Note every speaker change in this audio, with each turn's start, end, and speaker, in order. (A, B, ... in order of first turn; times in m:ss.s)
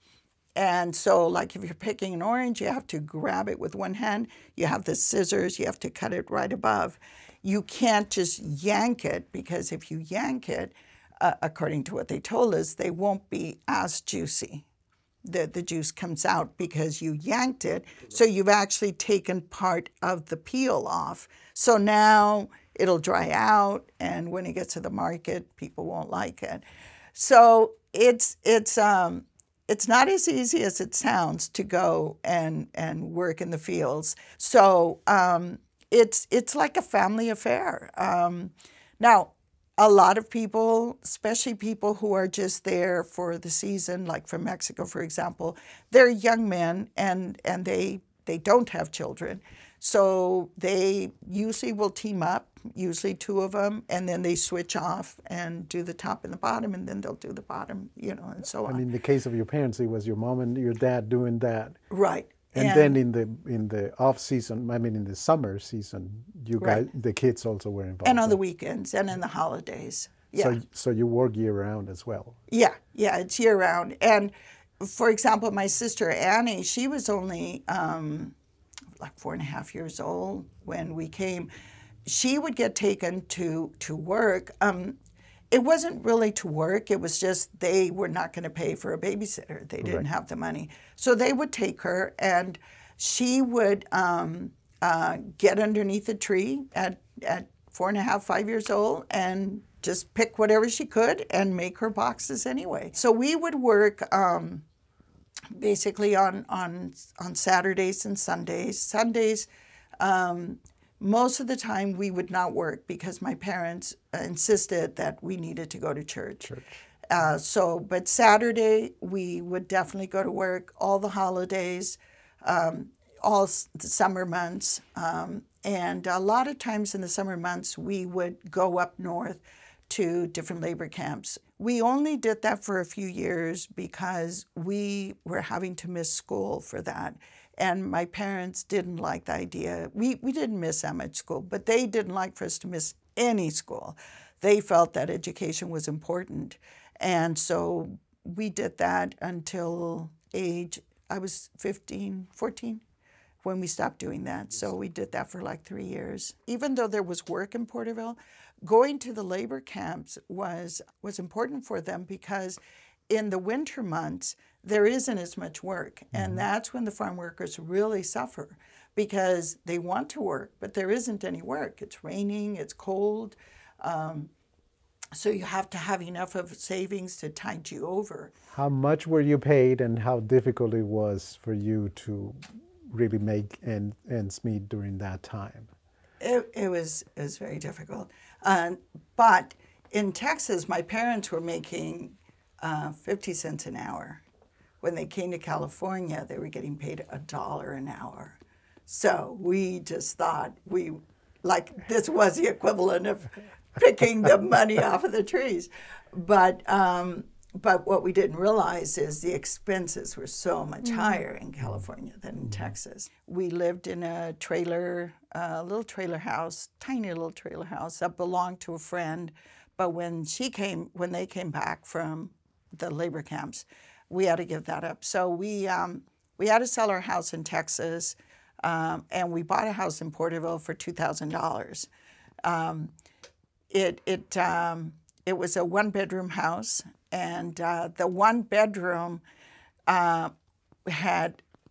0:00.6-0:14.7 A
0:15.2-0:58.8 A
0:58.6-1:01.8 B
1:01.9-1:03.0 A
1:02.5-1:08.4 B
1:06.6-1:06.9 A
1:08.0-1:10.6 A
1:10.4-1:12.4 B
1:12.5-1:18.4 A
1:19.0-1:21.5 A
1:22.0-1:25.0 A
1:25.5-1:44.6 A
1:45.6-1:49.5 A
1:50.0-1:56.5 A
1:56.4-1:56.7 B
1:57.1-2:32.8 A
2:33.4-2:54.3 A
2:46.1-2:46.4 B
2:55.1-2:58.3 A
2:58.5-3:05.7 B
3:06.2-3:14.2 A
3:14.8-3:51.9 A
3:52.4-3:52.9 A
3:53.7-3:59.2 A
3:59.9-4:00.3 A
4:00.9-4:01.4 A